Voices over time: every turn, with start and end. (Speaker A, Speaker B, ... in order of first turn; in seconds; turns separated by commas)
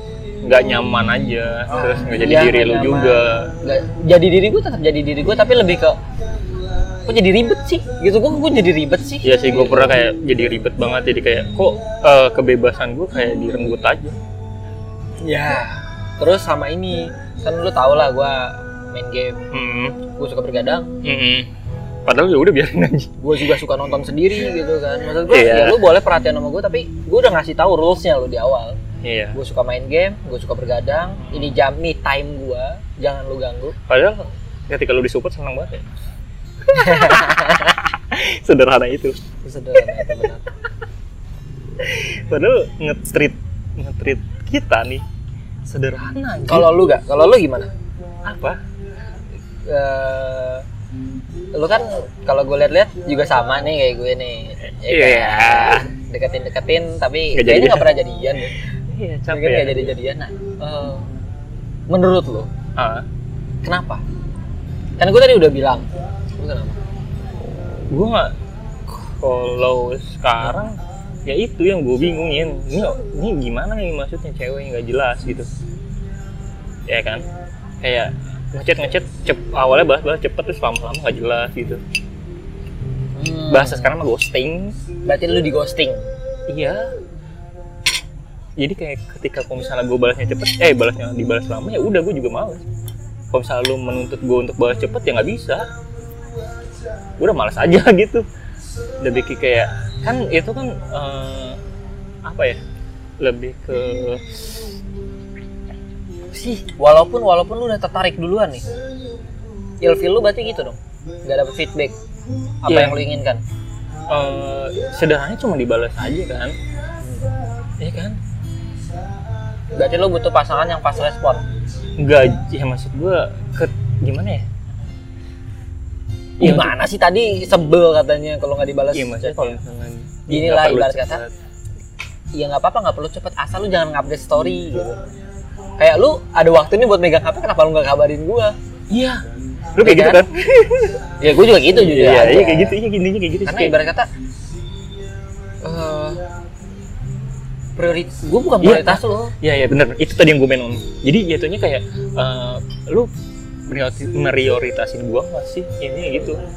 Speaker A: 0.4-3.5, Speaker B: 1.7-6.0, Speaker B: 7.0-9.9, Speaker A: 9.2-14.2, Speaker B: 15.2-19.4, Speaker A: 19.5-19.9, Speaker B: 20.1-20.9, Speaker A: 21.0-21.5, Speaker A: 22.0-23.1, Speaker B: 23.2-28.8, Speaker A: 25.3-25.8, Speaker A: 29.0-29.4, Speaker B: 29.3-33.8, Speaker A: 31.2-31.5, Speaker A: 33.9-35.9, Speaker B: 36.7-37.8, Speaker A: 36.7-39.2, Speaker B: 39.4-40.5, Speaker A: 41.8-45.0, Speaker A: 45.6-46.7, Speaker B: 46.5-47.7, Speaker A: 48.2-48.6, Speaker B: 49.7-50.6, Speaker B: 51.5-58.6, Speaker A: 54.9-55.9, Speaker A: 57.3-57.9, Speaker A: 58.9-59.9, Speaker B: 59.3-61.0, Speaker B: 61.9-62.5, Speaker A: 62.8-63.0, Speaker B: 63.6-64.0, Speaker B: 65.0-66.8, Speaker A: 67.9-68.3, Speaker A: 68.8-75.5, Speaker A: 76.9-77.2, Speaker A: 77.8-81.8, Speaker B: 83.2-83.9, Speaker A: 83.5-84.7, Speaker B: 85.0-86.0, Speaker A: 86.5-86.9, Speaker A: 88.6-92.6, Speaker A: 93.3-95.6, Speaker A: 97.2-98.2, Speaker A: 99.0-101.6, Speaker A: 102.2-102.6, Speaker A: 103.2-104.4, Speaker B: 106.3-108.6, Speaker B: 109.8-111.9, Speaker B: 112.6-113.4, Speaker A: 112.7-113.0, Speaker A: 114.1-116.5, Speaker A: 117.8-118.2, Speaker B: 119.7-121.4, Speaker A: 122.0-124.4, Speaker B: 126.4-129.5, Speaker A: 126.4-126.8, Speaker A: 128.9-131.3, Speaker B: 130.3-131.2, Speaker B: 132.3-135.0, Speaker B: 135.8-138.6, Speaker A: 138.9-139.2, Speaker A: 139.8-141.0, Speaker B: 139.8-140.2, Speaker B: 141.2-142.8, Speaker A: 141.6-143.7, Speaker B: 143.4-144.1, Speaker B: 145.6-146.2, Speaker B: 147.8-149.3, Speaker A: 148.6-153.1, Speaker A: 153.7-156.4